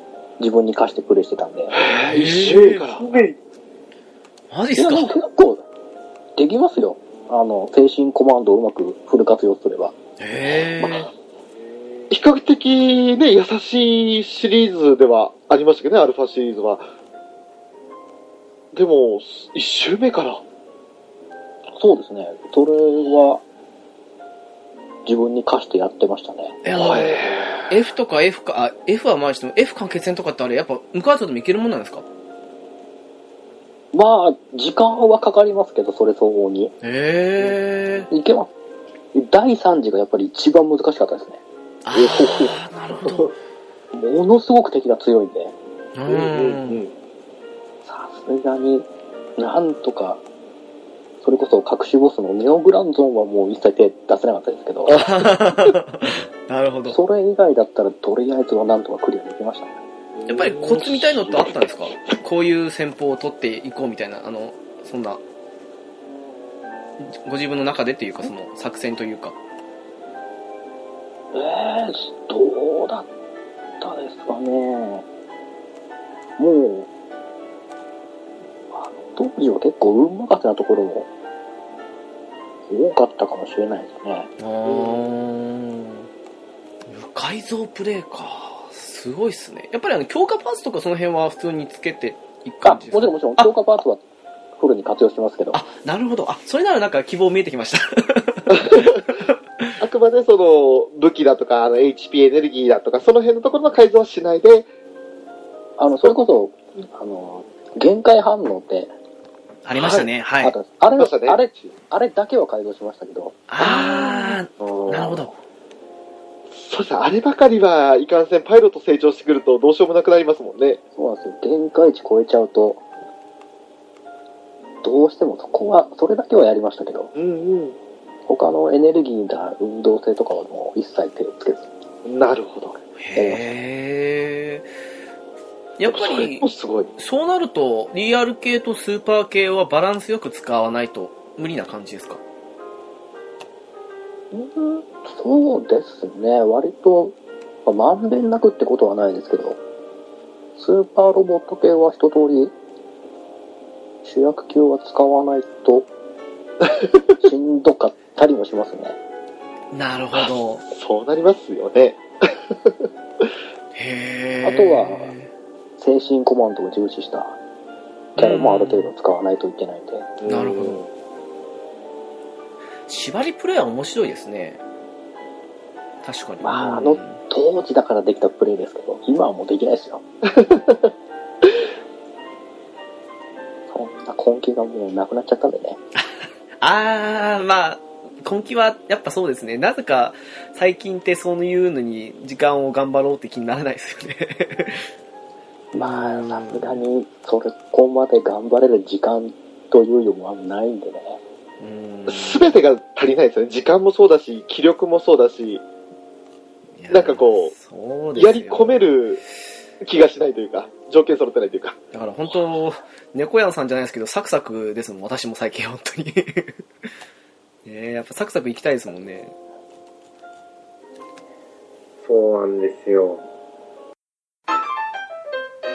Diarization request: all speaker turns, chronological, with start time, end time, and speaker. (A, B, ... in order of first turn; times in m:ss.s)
0:00.4-0:01.8 A
0:01.7-0:03.0 B
0:01.8-0:02.8 C
0:02.4-0:03.4 D
0:04.5-0:05.1 C
0:04.8-0:05.6 A
0:06.4-0:10.0 A
0:10.2-0:11.1 C
0:10.5-0:11.1 A
0:12.1-0:16.9 B
0:18.7-0:20.4 B
0:21.8-0:23.4 A
0:25.0-0:26.6 A
0:26.6-0:32.0 C
0:26.8-0:27.7 B
0:33.9-0:36.7 A
0:36.8-0:38.1 C
0:38.1-0:38.5 A
0:39.1-0:41.4 A
0:41.8-0:43.3 C
0:41.9-0:42.6 A
0:43.9-0:45.5 A
0:45.9-0:46.8 C
0:46.1-0:46.9 B
0:47.8-0:48.9 A
0:49.4-0:50.2 A
0:51.2-0:55.0 A
0:54.9-0:57.0 C
0:56.9-0:59.8 A
1:00.2-1:01.6 B
1:00.3-1:05.2 C
1:07.0-1:09.4 C
1:11.3-1:13.1 A
1:13.8-1:15.0 A
1:16.4-1:16.9 A
1:18.7-1:21.1 A
1:22.7-1:24.3 A
1:24.4-1:26.1 C
1:24.6-1:25.1 B
1:26.9-1:33.5 C
1:32.6-1:34.0 A
1:34.6-1:35.6 A
1:35.5-1:39.7 C
1:38.5-1:39.0 B
1:39.8-1:44.7 B
1:45.8-1:48.9 A
1:49.6-1:50.5 C
1:49.7-1:50.1 B
1:50.4-1:54.3 A
1:50.9-1:51.7 B
1:53.5-1:55.3 C
1:54.6-1:55.1 B
1:56.5-2:00.8 B
2:01.0-2:02.8 A
2:04.8-2:07.1 A
2:07.1-2:07.8 B
2:08.3-2:11.7 A
2:12.0-2:12.8 B
2:13.0-2:14.7 C
2:13.2-2:13.5 A
2:15.8-2:16.4 C
2:15.8-2:16.9 B
2:17.0-2:22.2 C
2:24.3-2:29.6 A
2:30.6-2:32.5 A
2:34.0-2:35.9 A
2:37.2-2:39.0 A
2:39.7-2:40.6 C
2:40.1-2:42.9 B
2:43.7-2:45.3 C
2:44.4-2:45.1 A
2:45.8-2:47.4 A
2:48.2-2:48.9 C
2:48.2-2:50.1 A
2:50.2-2:50.9 B
2:50.2-2:50.8 C
2:52.9-2:54.6 C
2:56.0-2:57.2 C
2:56.4-3:00.0 A
3:00.2-3:00.9 B
3:03.7-3:05.8 A
3:06.6-3:14.9 C
3:15.7-3:21.2 A
3:15.8-3:16.8 C
3:21.6-3:22.5 C
3:22.1-3:25.6 B
3:26.8-3:29.0 C
3:26.9-3:27.5 B
3:28.1-3:29.2 B
3:29.8-3:31.8 B
3:31.9-3:36.6 C
3:37.6-3:39.3 C
3:42.0-3:43.2 D